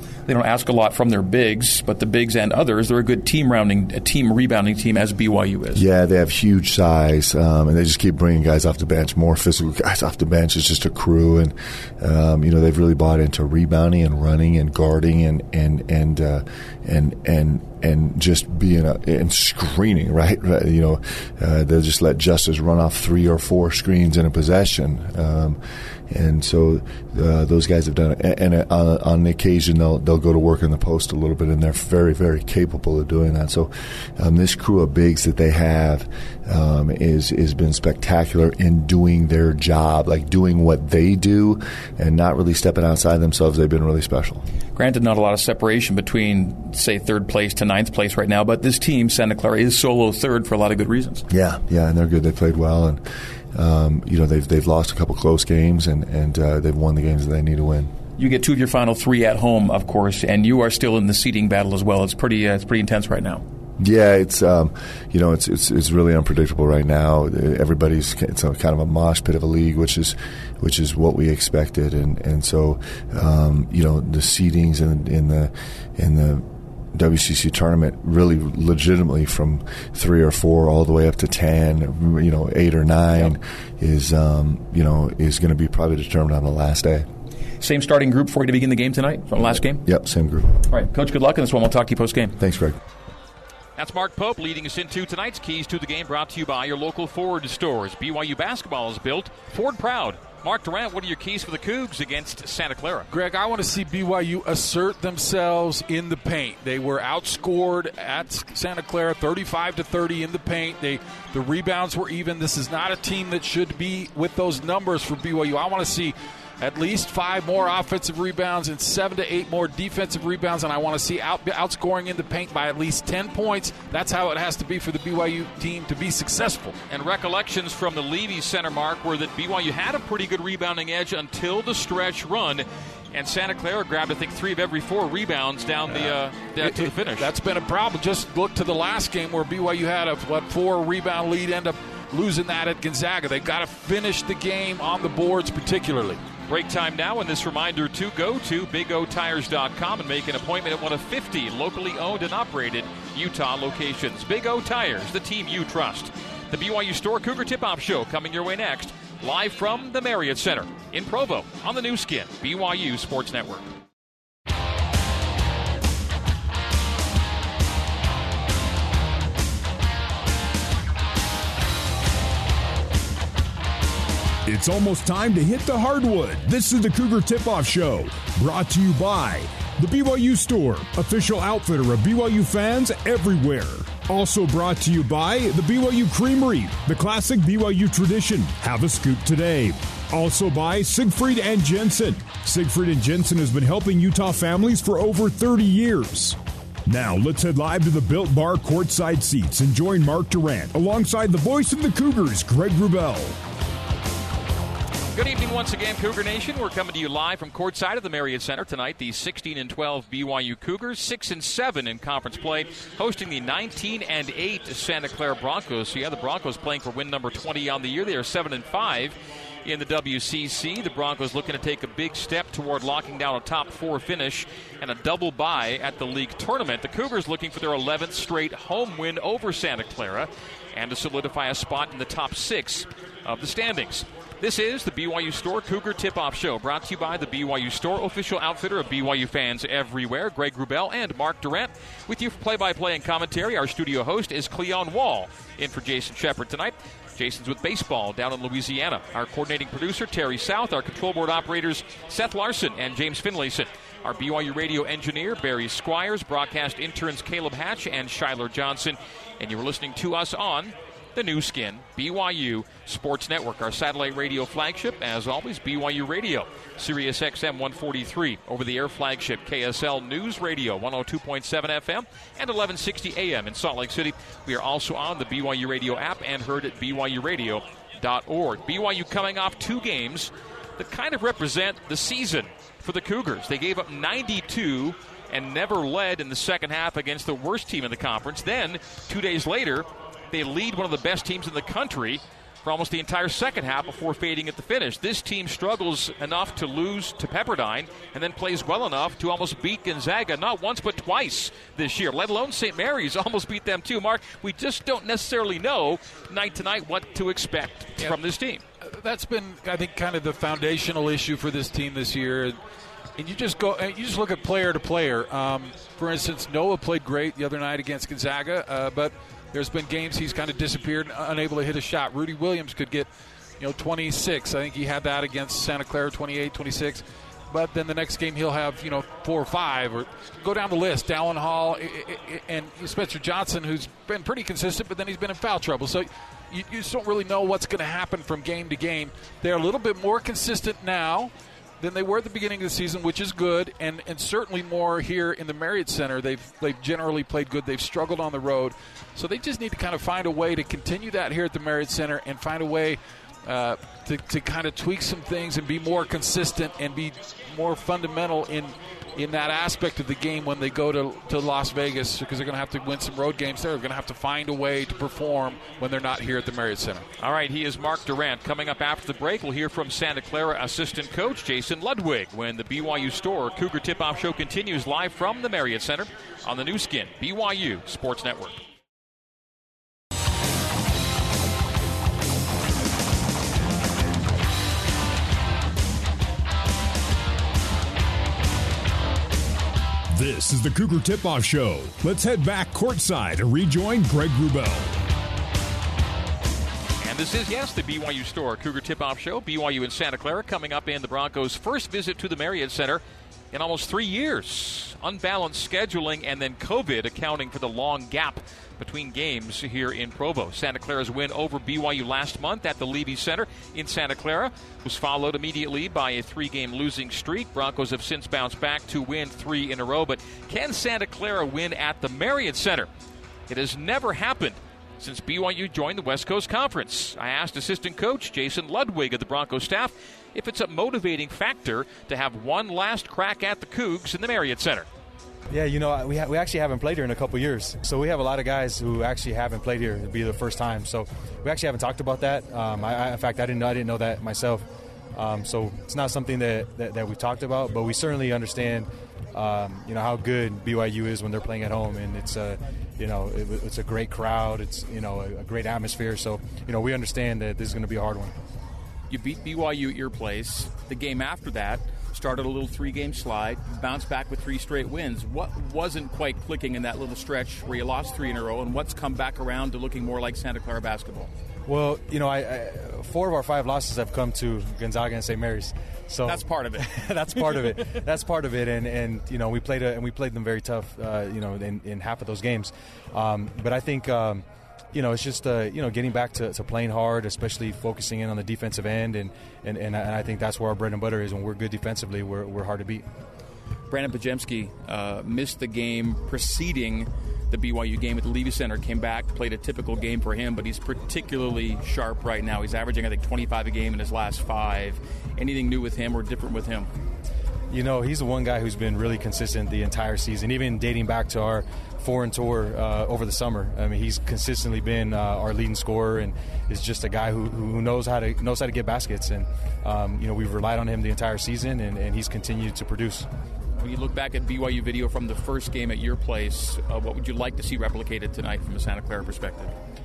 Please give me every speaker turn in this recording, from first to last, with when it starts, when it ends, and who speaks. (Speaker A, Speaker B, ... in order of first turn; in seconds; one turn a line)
Speaker A: 0.2-5.8
Speaker B: 5.7-44.4
Speaker A: 44.7-51.2
Speaker B: 51.3-57.9
Speaker A: 58.2-63.4
Speaker B: 63.8-87.1
Speaker A: 87.6-89.8
Speaker B: 89.8-90.6
Speaker A: 90.7-92.3
Speaker B: 92.4-92.8
Speaker C: 93.8-103.1
Speaker D: 103.1-126.8
Speaker C: 126.9-137.3
Speaker D: 135.8-146.2
Speaker C: 146.5-163.7
Speaker E: 174.4-203.4
Speaker C: 205.1-308.6
Speaker D: 308.8-312.6
Speaker D: 313.2-367.1
Speaker C: 367.2-378.6
Speaker E: 390.1-395.0
Speaker C: 397.0-422.9
Speaker C: 423.5-434.9
Speaker F: 435.5-458.4
Speaker A: 459.1-471.3
Speaker F: 471.6-493.1
Speaker A: 476.2-478.0
Speaker A: 493.9-506.9
Speaker F: 507.7-523.3
Speaker A: 523.8-529.7